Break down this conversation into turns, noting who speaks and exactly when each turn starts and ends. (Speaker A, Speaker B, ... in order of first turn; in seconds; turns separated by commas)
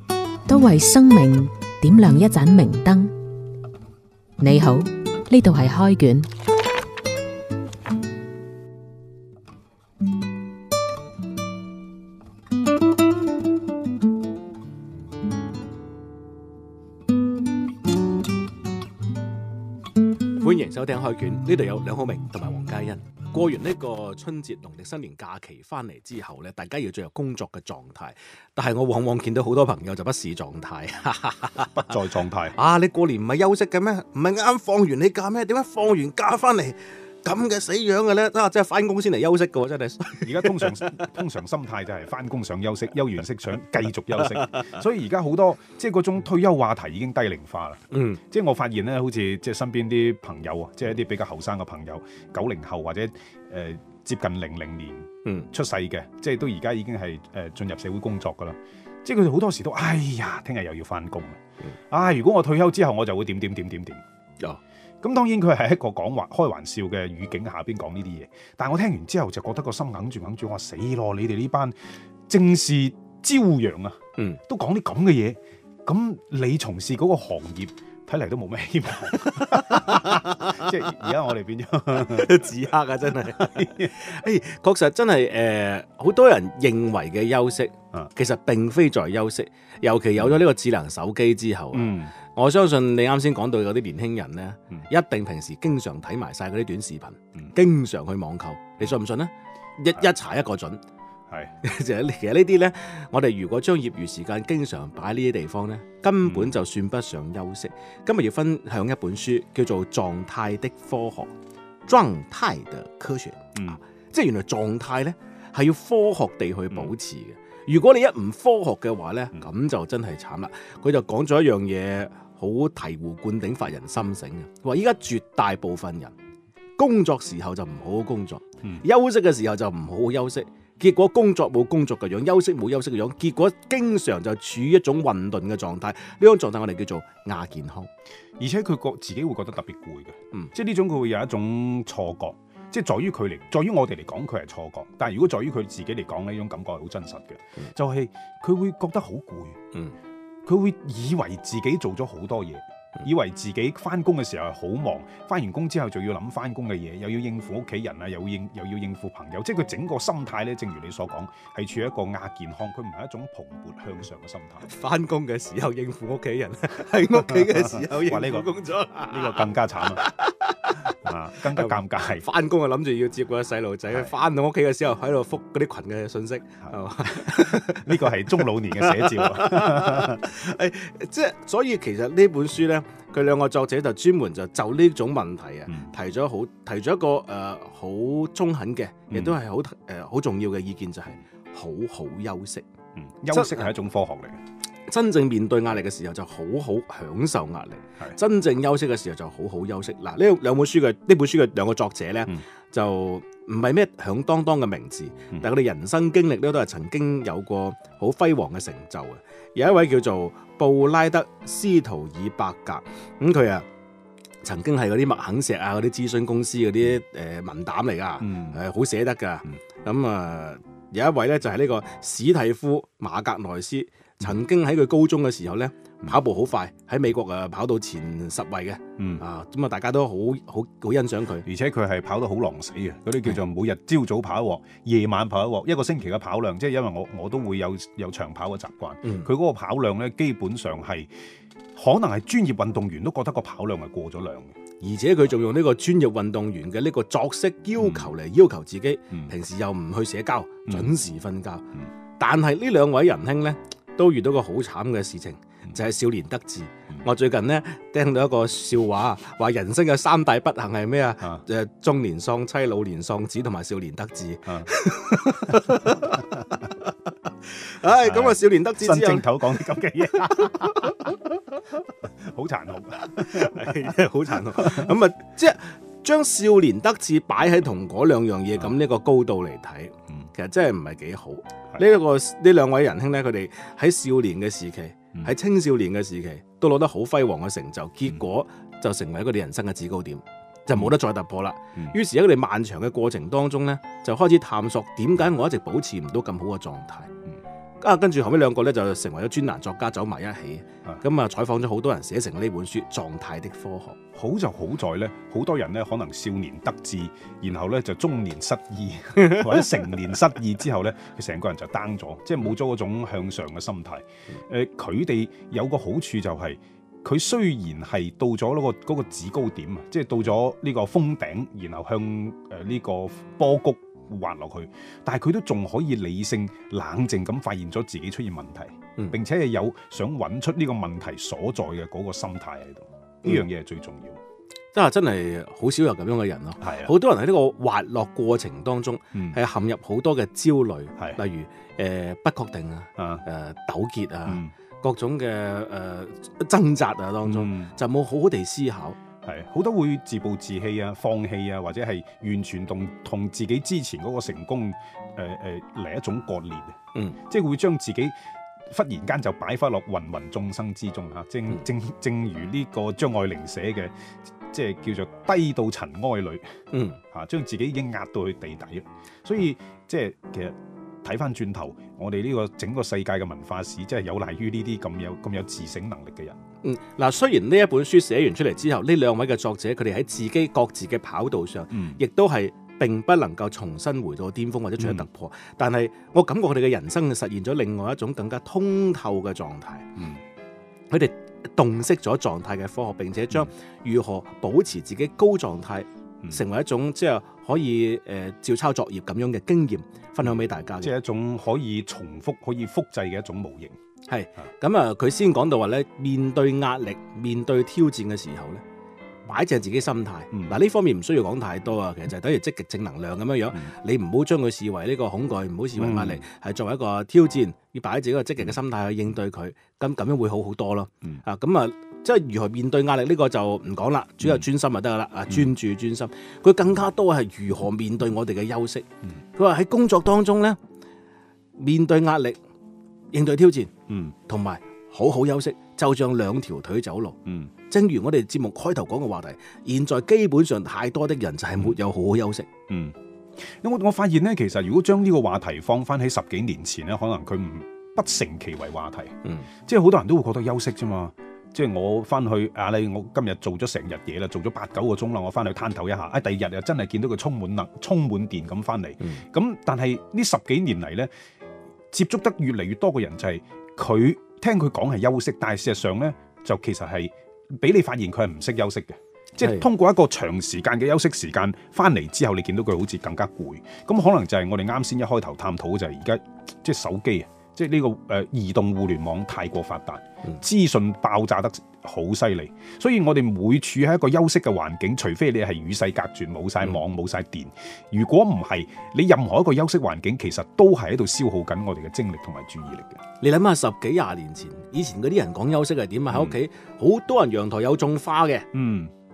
Speaker A: 0.5-3.1, Speaker A: 4.4-6.3, Speaker B: 20.4-32.0, Speaker C: 31.7-32.5, Speaker B: 32.5-41.1, Speaker C: 40.2-64.0, Speaker B: 44.2-44.7, Speaker B: 47.9-48.2, Speaker B: 55.2-55.5, Speaker C: 65.0-71.8, Speaker C: 72.3-82.5, Speaker B: 79.6-80.6, Speaker B: 81.9-100.8, Speaker C: 83.2-83.9, Speaker C: 91.7-92.1, Speaker C: 101.3-101.5, Speaker B: 101.6-111.3, Speaker C: 106.2-106.6, Speaker B: 111.8-126.1, Speaker B: 126.8-137.9, Speaker C: 138.4-149.6, Speaker C: 150.4-164.7, Speaker B: 164.7-192.6, Speaker C: 167.3-168.5, Speaker C: 169.1-170.0, Speaker C: 170.8-172.2, Speaker C: 176.7-180.3, Speaker C: 189.1-189.4, Speaker C: 192.9-194.4, Speaker B: 193.3-193.7, Speaker B: 194.9-213.7, Speaker B: 214.4-231.5, Speaker C: 218.2-218.6, Speaker C: 229.0-229.2, Speaker C: 231.4-241.1, Speaker B: 239.0-239.3, Speaker C: 241.7-244.5, Speaker B: 244.8-266.9, Speaker C: 247.8-248.1, Speaker C: 250.7-250.9, Speaker C: 265.8-266.1, Speaker B: 267.4-271.1, Speaker C: 268.0-271.2, Speaker C: 272.0-273.8, Speaker B: 273.1-297.1, Speaker C: 274.4-274.9, Speaker B: 297.8-304.0, Speaker C: 304.1-334.2, Speaker B: 334.7-349.0, Speaker C: 336.6-336.9, Speaker C: 343.0-343.2, Speaker C: 344.2-344.5, Speaker C: 347.2-347.7, Speaker C: 349.2-358.1, Speaker C: 358.7-366.5, Speaker B: 366.7-367.0, Speaker C: 367.1-376.4, Speaker B: 376.6-389.9, Speaker C: 381.7-382.0, Speaker C: 384.8-385.0, Speaker C: 389.9-390.2, Speaker B: 390.9-400.9, Speaker C: 400.2-403.7, Speaker B: 404.1-408.6, Speaker B: 409.2-430.6, Speaker C: 415.8-416.2, Speaker B: 431.6-432.4, Speaker B: 433.1-433.7, Speaker C: 433.9-434.1, Speaker B: 434.2-442.5, Speaker C: 437.2-437.5, Speaker C: 442.7-461.1, Speaker C: 461.9-493.0, Speaker B: 493.2-498.5, Speaker C: 496.1-496.4, Speaker C: 498.5-498.9